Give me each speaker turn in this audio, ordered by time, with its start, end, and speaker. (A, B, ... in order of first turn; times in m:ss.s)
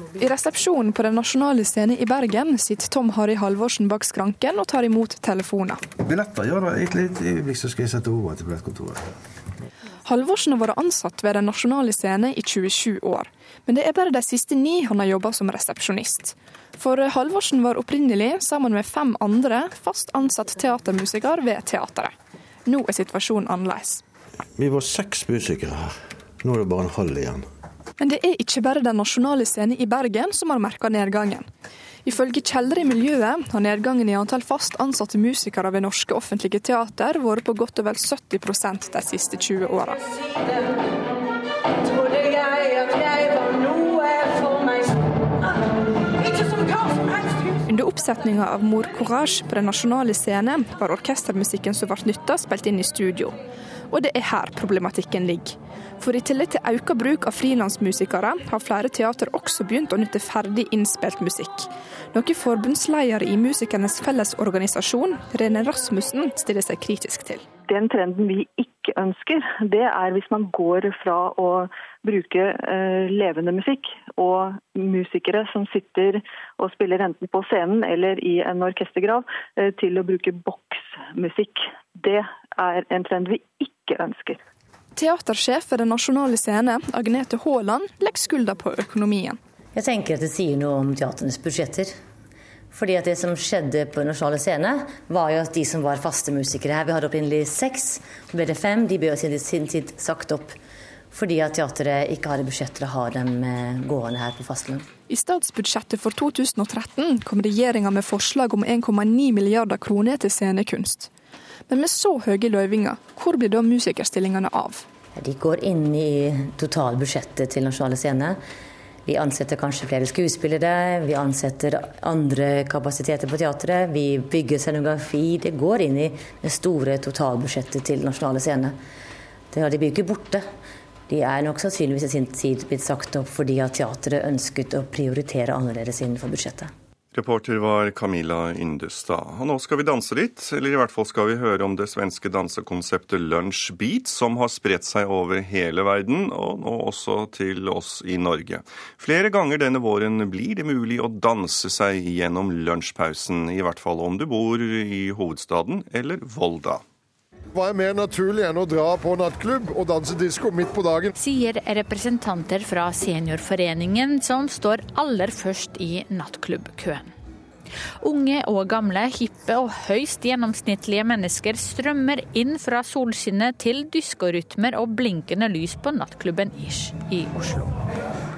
0:00.2-0:05.8 A
0:06.0-0:09.1 B
0:10.0-0:22.1 A
0:22.7-0:24.0 A
0:24.6-0:25.9 B
0:26.4-0:27.4 B
0:28.0-0:31.5 A
0:32.0-0:40.1 A
0:47.6-0:53.4 A
0:53.9-1:07.5 A
1:07.7-1:24.4 C
1:25.0-1:29.4 A
1:29.8-1:32.0 D
1:32.7-1:40.6 D
1:41.1-1:44.9 D
1:45.1-1:51.1 A
1:51.7-1:54.9 A
1:55.2-1:58.4 D
1:59.1-2:08.8 D
2:09.5-2:10.5 D
2:11.1-2:16.7 D
2:17.1-2:36.8 E
2:37.5-2:41.1 F
2:41.2-2:47.1 G
2:48.0-2:57.8 G